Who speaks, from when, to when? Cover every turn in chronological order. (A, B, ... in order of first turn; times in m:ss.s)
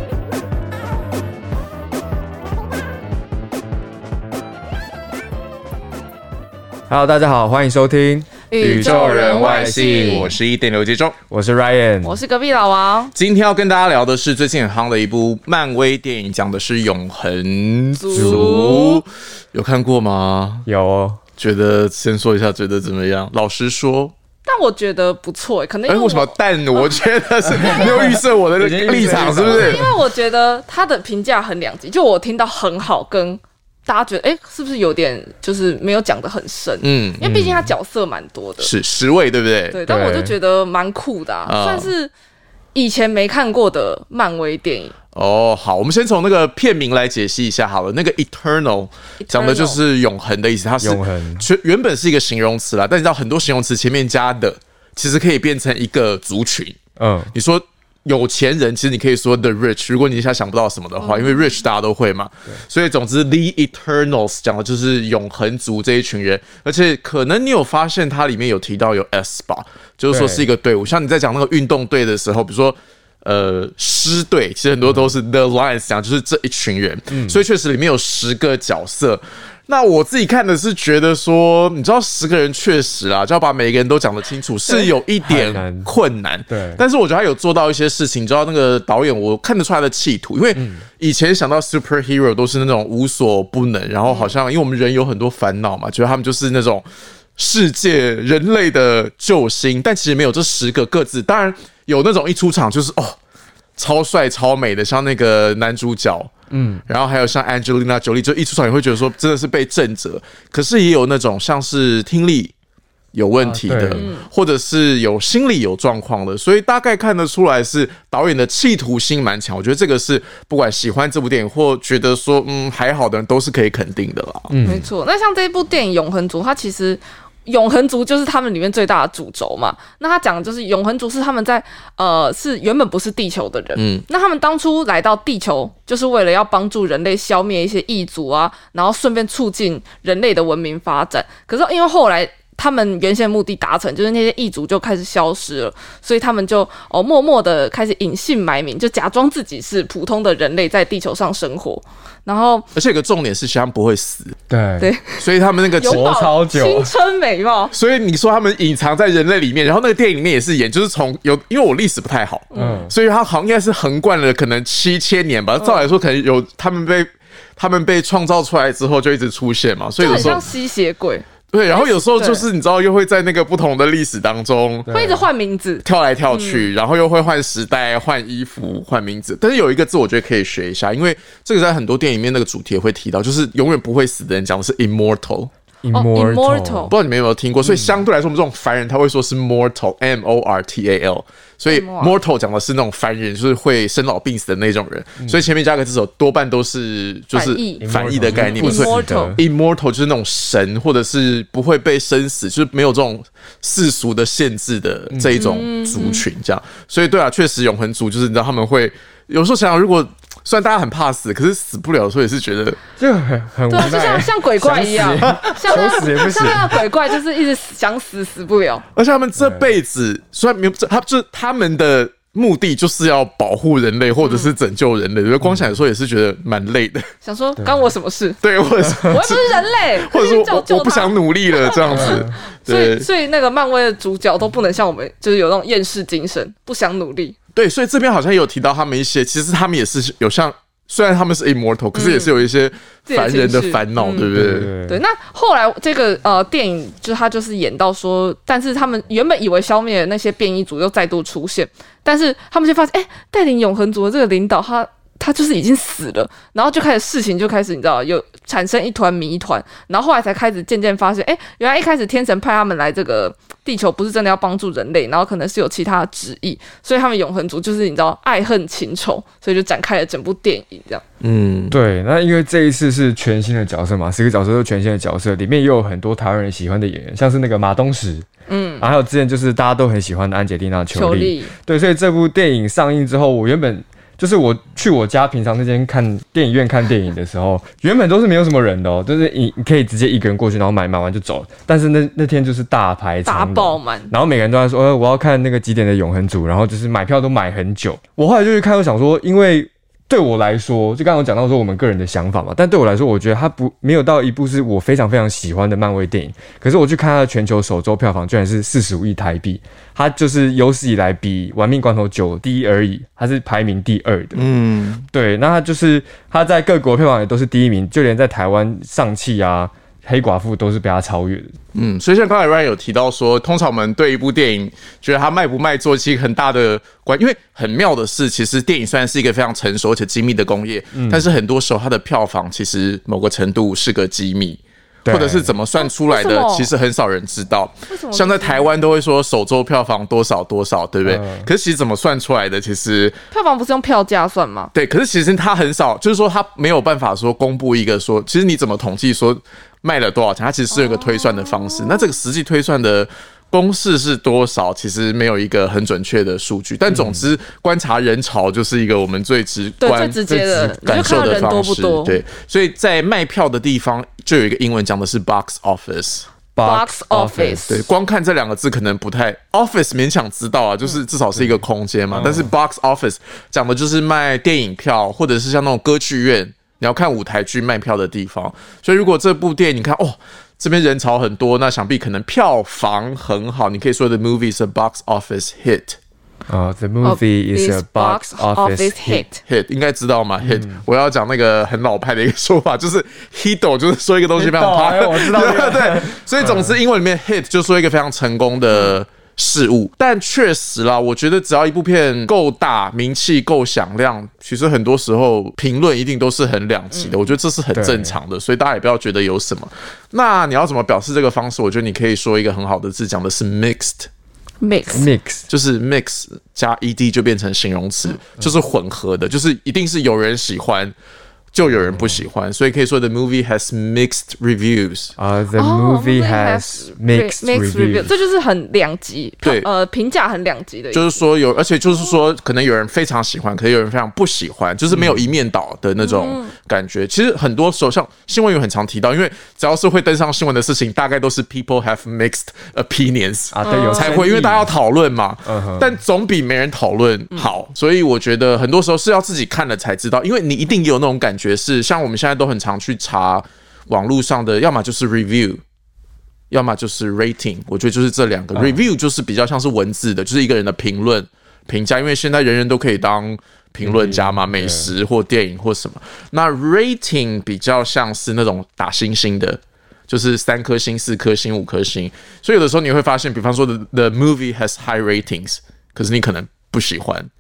0:06.9-0:10.4 A
0:08.5-0:10.3 B
0:08.6-0:11.2 C
0:11.3-0:12.2 A
0:12.0-0:13.1 B
0:13.1-0:20.7 C
0:18.0-0:19.0 B
0:18.1-0:18.9 A
0:20.6-0:21.2 A
0:21.4-0:24.1 C
0:24.4-0:26.9 B
0:25.9-0:29.8 C
0:27.4-0:29.9 A
0:27.6-0:27.9 B
0:29.4-0:38.7 B
0:36.8-0:37.7 C
0:38.6-0:39.8 C
0:39.7-0:42.1 B
0:39.8-0:40.4 A
0:41.5-0:41.9 C
0:42.7-0:44.9 B
0:45.1-0:56.8 C
0:49.2-0:49.8 B
0:50.8-0:51.5 A
0:57.0-0:57.3 A
0:57.3-1:36.8 C
1:01.0-1:01.4 B
1:10.1-1:10.4 A
1:14.8-1:15.1 A
1:17.1-1:17.4 A
1:25.2-1:25.9 A
1:26.5-1:26.8 A
1:30.5-1:30.9 A
1:34.0-1:34.3 B
1:37.4-1:43.2 C
1:43.8-1:46.3 C
1:46.5-1:46.8 A
1:46.9-1:52.5 C
1:53.1-2:04.6 C
1:53.4-1:54.1 A
1:53.9-1:54.3 B
2:04.5-2:04.9 A
2:04.6-2:32.7 B
2:13.8-2:14.0 C
2:32.7-2:34.4 C
2:34.5-2:34.9 A
2:34.8-2:35.3 B
2:35.2-2:36.0 C
2:35.8-2:37.7 B
2:35.8-2:36.9 A
2:37.7-2:50.4 C
2:42.5-2:42.9 B
2:42.5-2:42.9 A
2:45.6-2:45.8 B
2:50.0-2:52.5 B
2:51.5-2:54.9 C
2:54.9-2:55.3 A
2:54.9-2:56.7 B
2:55.8-3:05.5 C
3:05.8-3:06.9 A
3:05.9-3:06.9 B
3:06.9-3:32.8 C
3:07.6-3:07.9 A
3:11.7-3:12.2 B
3:17.3-3:19.4 B
3:17.8-3:19.4 A
3:25.1-3:25.4 A
3:25.3-3:26.2 B
3:33.0-3:36.8 A
3:33.7-3:38.8 B
3:35.3-3:36.4 C
3:38.9-3:47.1 C
3:39.4-3:39.7 A
3:44.2-3:44.5 B
3:45.4-3:45.7 A
3:47.2-3:48.4 B
3:47.6-3:47.8 A
3:48.4-3:53.0 C
3:49.0-3:57.4 B
3:51.9-3:52.3 A
3:57.5-4:04.7 C
4:01.9-4:02.4 B
4:03.1-4:04.3 B
4:04.3-4:05.0 A
4:04.8-4:31.0 B
4:31.2-4:31.8 C
4:31.7-4:38.2 A
4:38.5-4:38.9 B
4:38.8-5:14.5 A
4:40.9-4:41.5 B
4:53.2-4:54.1 B
5:14.3-5:15.0 C
5:15.1-5:21.6 A
5:21.7-5:43.2 C
5:30.9-5:31.3 A
5:35.0-5:35.5 A
5:35.7-5:36.7 B
5:37.9-5:38.7 B
5:41.0-5:41.5 A
5:43.3-5:44.7 B
5:44.7-6:06.3 C
5:50.7-5:52.0 B
5:56.9-5:57.2 A
5:59.8-6:02.2 B
6:00.3-6:01.4 A
6:06.5-6:07.8 A
6:06.6-6:07.7 B
6:07.7-6:26.0 C
6:11.3-6:12.5 A
6:26.5-6:29.2 A
6:27.0-6:29.4 B
6:29.4-6:54.1 C
6:30.4-6:30.8 A
6:34.4-6:36.8 A
6:46.9-6:47.2 B
6:47.7-6:48.1 A
6:54.6-6:55.1 B
6:54.9-6:55.5 A
6:55.5-7:00.9 C
7:01.5-7:05.1 C
7:01.7-7:02.2 A
7:05.2-7:08.1 A
7:05.5-7:11.2 B
7:09.4-7:09.7 C
7:10.9-7:35.6 C
7:14.9-7:15.3 A
7:16.0-7:16.5 B
7:23.5-7:24.7 A
7:23.6-7:24.2 B
7:25.4-7:26.0 A
7:36.5-7:57.3 C
7:38.5-7:38.8 A
7:43.8-7:44.9 A